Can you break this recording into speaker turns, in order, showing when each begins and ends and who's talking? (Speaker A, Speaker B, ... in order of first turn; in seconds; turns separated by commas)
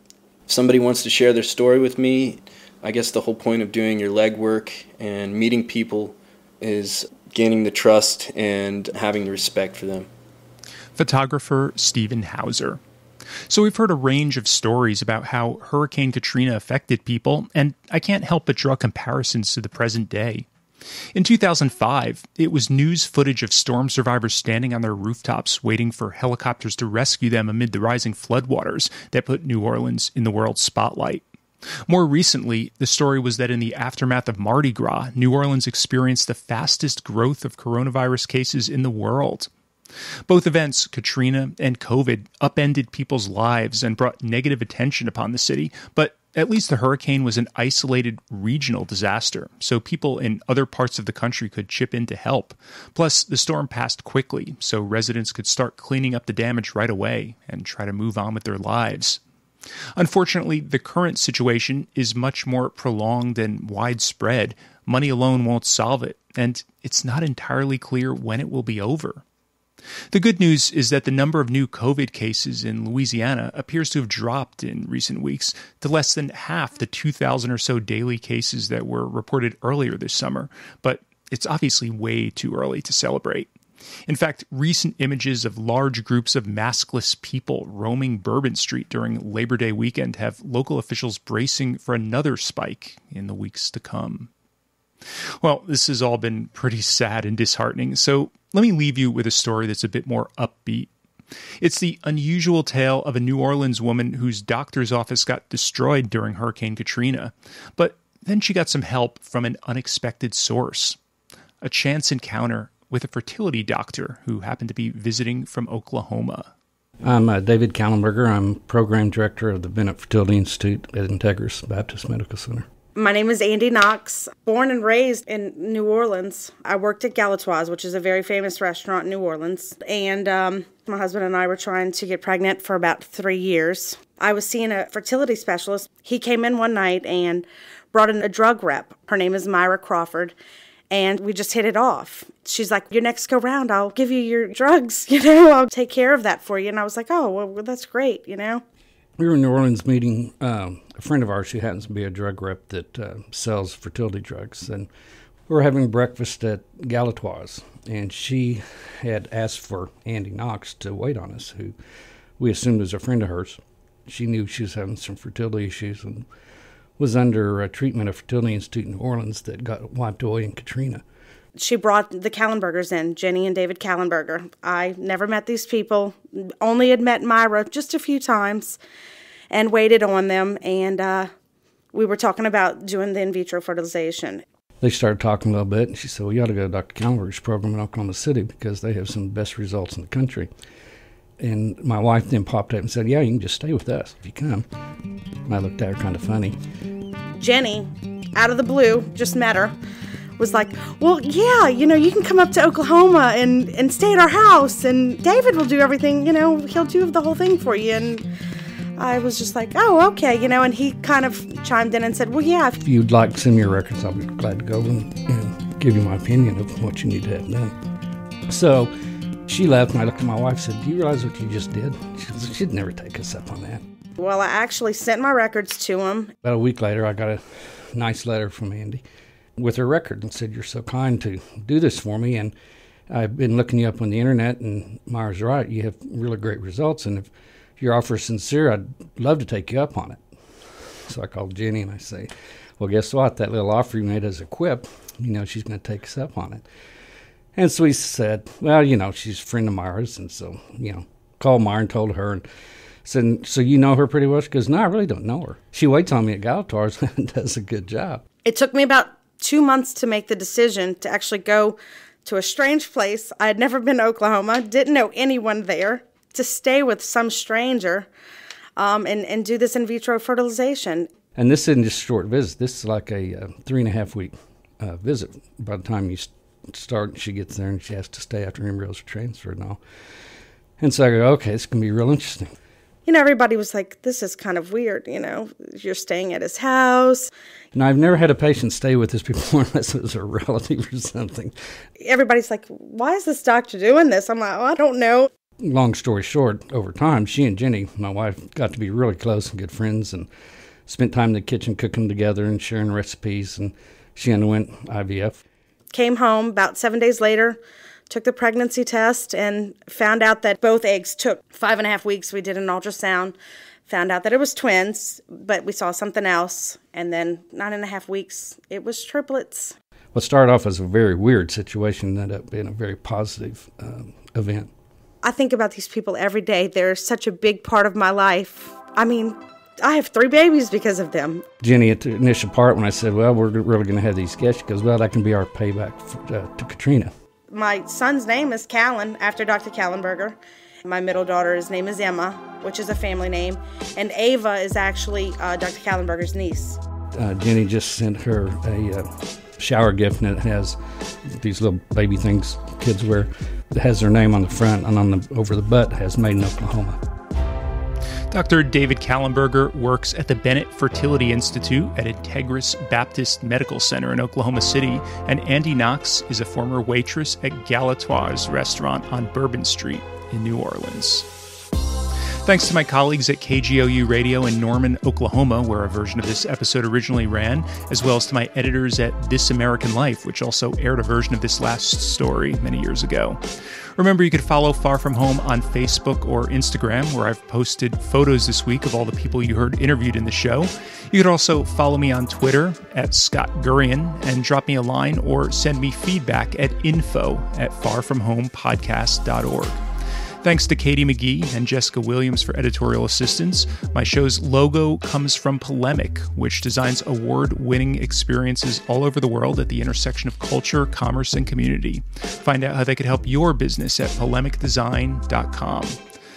Speaker A: 0.5-10.1, Speaker B: 10.9-12.8, Speaker B: 13.5-20.5, Speaker B: 21.1-31.2, Speaker B: 31.9-39.5, Speaker B: 40.3-59.2, Speaker B: 60.0-69.2, Speaker B: 70.1-83.5, Speaker B: 84.1-94.3, Speaker B: 95.4-100.9, Speaker B: 101.6-111.0, Speaker B: 111.6-116.5, Speaker C: 117.0-122.7, Speaker D: 123.0-140.3, Speaker D: 140.9-148.6, Speaker C: 149.2-154.9, Speaker C: 155.5-161.7, Speaker C: 162.4-166.2, Speaker C: 167.0-171.0, Speaker D: 171.6-178.8, Speaker D: 179.5-181.3, Speaker D: 181.9-184.4, Speaker C: 184.8-190.5, Speaker C: 191.4-194.7, Speaker C: 195.5-196.6, Speaker D: 197.4-199.7, Speaker D: 200.4-208.2, Speaker D: 209.0-212.8, Speaker C: 212.8-217.7, Speaker C: 218.5-218.9, Speaker C: 219.5-223.8, Speaker D: 224.2-226.3, Speaker C: 226.4-229.0, Speaker C: 229.6-232.5, Speaker C: 233.1-240.2, Speaker C: 241.1-246.6, Speaker C: 247.5-252.4, Speaker C: 253.0-258.2, Speaker D: 258.4-268.1, Speaker D: 268.8-271.1, Speaker C: 271.3-279.8, Speaker C: 280.8-282.5, Speaker D: 283.1-287.3, Speaker C: 287.7-291.5, Speaker D: 292.0-295.3, Speaker C: 295.6-300.3, Speaker C: 300.9-305.4, Speaker D: 305.9-307.6, Speaker D: 308.1-319.7, Speaker C: 320.1-324.7, Speaker D: 325.2-331.4, Speaker C: 331.6-337.1, Speaker D: 337.5-346.8, Speaker C: 347.2-357.0, Speaker B: 358.3-371.3, Speaker B: 372.4-383.4, Speaker B: 384.0-399.8, Speaker B: 400.4-416.0